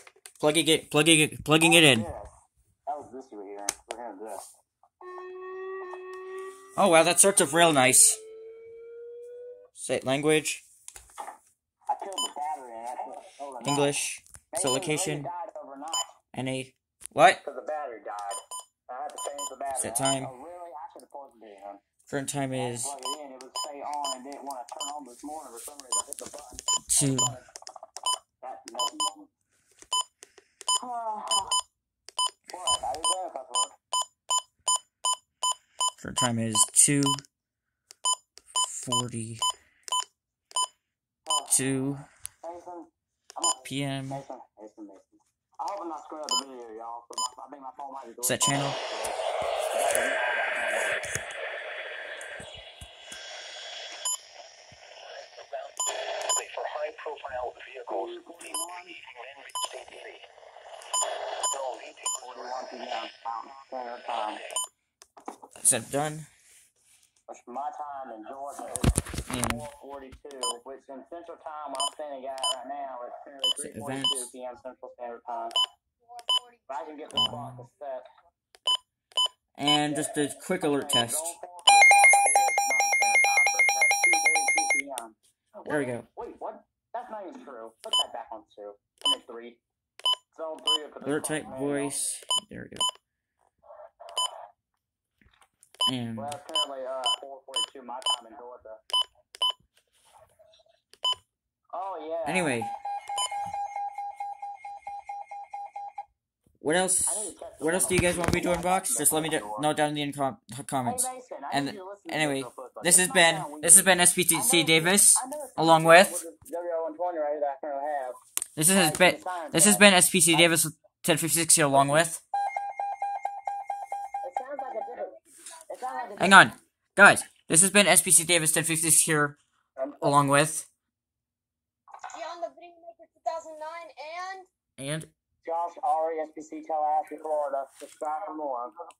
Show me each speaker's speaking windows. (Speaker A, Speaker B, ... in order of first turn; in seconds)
Speaker A: 0.4-2.0, 6.8-8.2, 9.8-10.6, 13.6-15.3, 16.3-17.4, 19.8-20.3, 22.1-22.9, 26.9-27.4, 36.0-37.2, 38.6-39.4, 41.5-42.1, 43.6-44.2, 48.2-48.8, 65.6-66.3, 69.3-69.7, 73.6-74.3, 77.1-77.7, 79.6-81.3, 85.6-86.0, 91.0-92.8, 95.8-96.4, 102.2-102.7, 106.6-116.2, 118.5-122.2, 126.2-129.4, 130.0-130.7, 134.8-135.1
Speaker B: 1.6-2.3, 2.9-4.5, 11.9-14.0, 14.5-16.1, 17.4-21.8, 22.5-27.4, 28.4-29.3, 30.8-31.5, 32.5-33.7, 41.2-41.6, 42.4-49.2, 49.7-51.2, 57.9-59.0, 62.1-64.4, 67.3-68.9, 69.4-75.5, 76.7-78.0, 79.9-89.6, 90.3-92.0, 96.2-98.8, 101.7-102.6, 107.0-109.7, 110.8-118.2, 118.7-120.5, 121.7-122.1, 124.2-126.5, 129.8-130.2, 135.4-138.7
Speaker C: 56.4-57.9, 59.0-60.2, 61.5-61.9
Speaker D: 76.0-77.0, 125.0-126.5, 132.1-134.5